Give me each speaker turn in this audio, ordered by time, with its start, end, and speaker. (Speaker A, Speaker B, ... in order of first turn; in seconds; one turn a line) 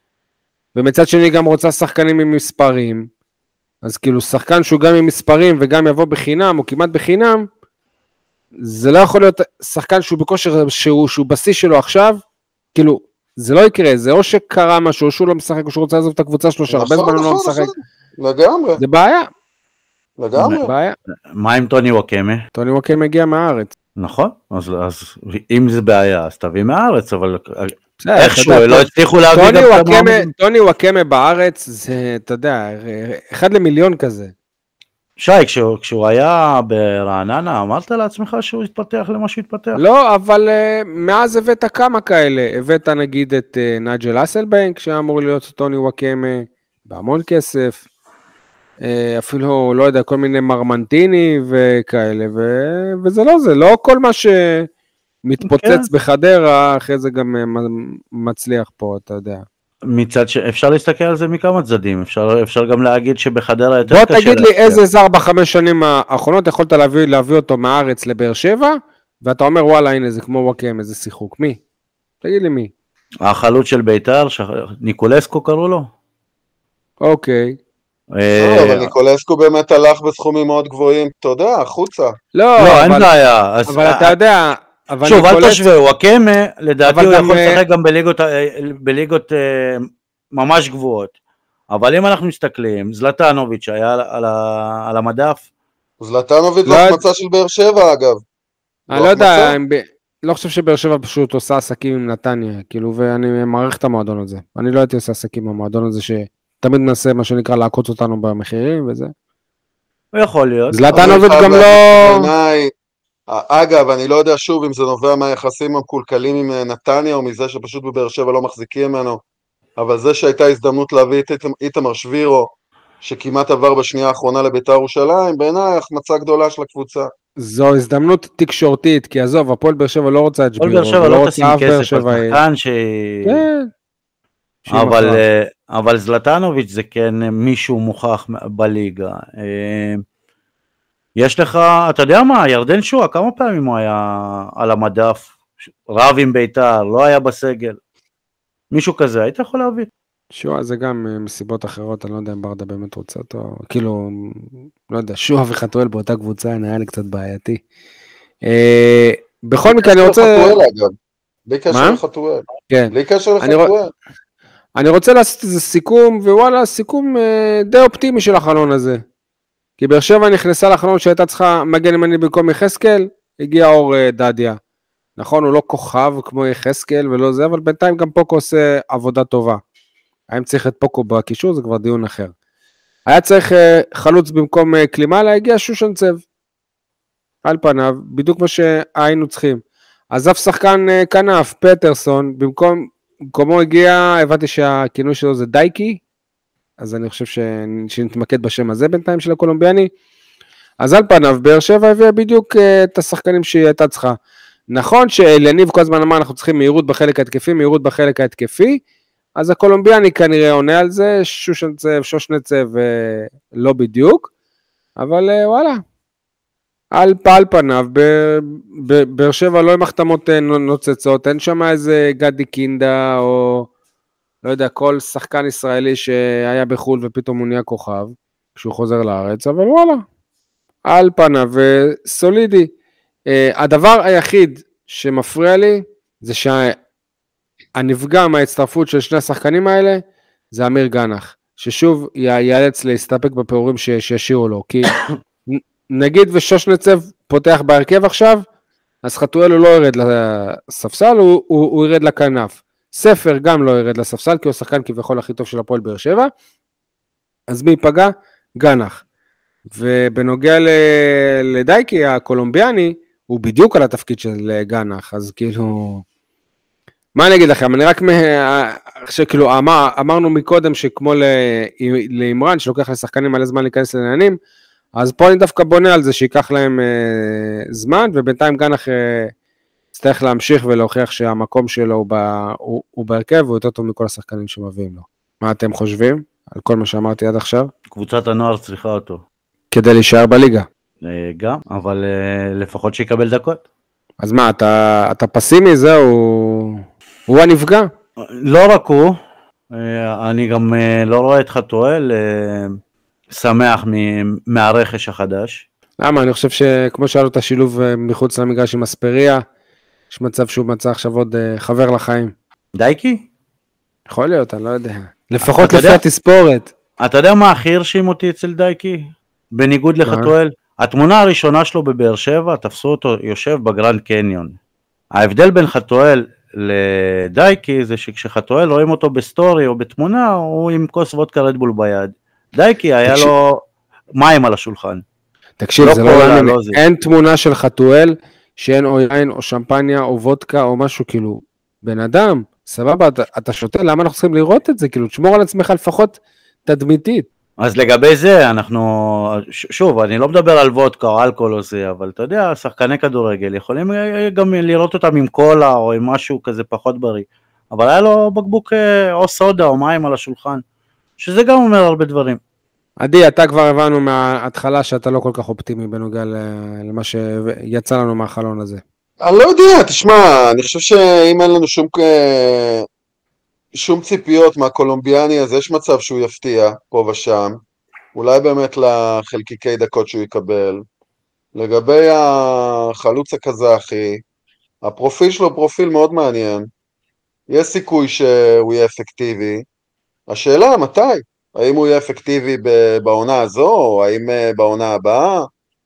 Speaker A: 0.8-3.1
Speaker A: 3.8-7.5
Speaker A: 8.6-12.2
Speaker A: 12.7-17.7
Speaker B: 16.7-18.8
Speaker A: 18.8-19.3
Speaker B: 20.2-20.7
Speaker C: 20.4-20.6
Speaker A: 20.6-20.9
Speaker C: 21.3-22.4
Speaker A: 22.5-23.7
Speaker C: 24.0-30.3
Speaker A: 28.0-34.3
Speaker C: 35.2-39.8
Speaker A: 39.8-47.8
Speaker A: 48.8-54.7
Speaker A: 55.2-59.5
Speaker C: 55.5-55.9
Speaker C: 59.9-64.8
Speaker A: 63.9-71.6
Speaker A: 72.2-72.7
Speaker C: 73.2-75.9
Speaker A: 77.0-77.6
Speaker C: 78.1-78.9
Speaker B: 78.3-82.2
Speaker A: 82.3-83.1
Speaker C: 82.6-84.2
Speaker A: 83.7-85.7
Speaker C: 85.0-91.1
Speaker A: 86.8-87.6
Speaker C: 91.7-95.4
Speaker B: 96.0-98.2
Speaker A: 96.7-97.0
Speaker A: 98.9-109.1
Speaker B: 98.9-99.6
Speaker C: 110.1-111.2
Speaker A: 110.7-112.3
Speaker B: 110.9-112.7
Speaker B: 113.3-119.2
Speaker B: 119.8-122.5
Speaker B: 123.0-127.1
Speaker A: 127.4-132.4
Speaker C: 130.6-133.4
Speaker A: 133.2-133.7
Speaker A: 134.7-135.2
Speaker C: 134.7-140.0
Speaker C: 141.2-145.3
Speaker C: 145.9-147.8
Speaker C: 148.7-149.9
Speaker A: 150.3-157.6
Speaker A: 158.5-160.6
Speaker B: 159.7-160.9
Speaker B: 161.5-163.9
Speaker A: 161.7-162.0
Speaker A: 162.7-163.7
Speaker A: 164.8-169.0
Speaker A: 169.8-174.6
Speaker A: 175.2-179.6
Speaker A: 180.3-182.3
Speaker A: 183.1-186.2
Speaker A: 187.4-189.6
Speaker A: 190.1-196.0
Speaker A: 196.8-199.9
Speaker A: 200.8-204.2
Speaker A: 204.7-208.8
Speaker A: 209.4-214.3
Speaker A: 215.0-215.8
Speaker A: 216.9-223.7
Speaker A: 224.4-230.0
Speaker A: 230.9-232.7
Speaker A: 233.3-236.8
Speaker A: 237.8-244.9
Speaker A: 245.5-248.4
Speaker A: 249.0-256.3
Speaker A: 257.5-259.0
Speaker A: 259.7-266.0
Speaker A: 267.2-274.4
Speaker A: 275.0-279.3
Speaker A: 279.9-287.7
Speaker C: 287.9-289.2
Speaker A: 289.7-290.7
Speaker C: 291.0-293.6
Speaker A: 294.2-297.9
Speaker C: 298.2-299.1
Speaker C: 299.7-302.8
Speaker C: 303.3-305.6
Speaker A: 306.0-309.4
Speaker A: 310.1-312.3
Speaker C: 312.8-313.2
Speaker A: 314.1-316.7
Speaker C: 315.5-316.0
Speaker C: 317.0-319.0
Speaker C: 319.5-324.6
Speaker A: 320.1-320.3
Speaker C: 325.1-333.6
Speaker A: 333.1-333.3
Speaker C: 334.2-335.0
Speaker A: 335.6-347.3
Speaker C: 335.8-336.8
Speaker C: 347.6-360.6
Speaker C: 361.2-362.4
Speaker A: 363.0-368.8
Speaker B: 369.2-372.9
Speaker B: 373.8-377.6
Speaker B: 378.1-380.8
Speaker B: 381.6-384.2
Speaker B: 384.8-386.7
Speaker B: 387.5-389.6
Speaker B: 390.3-395.5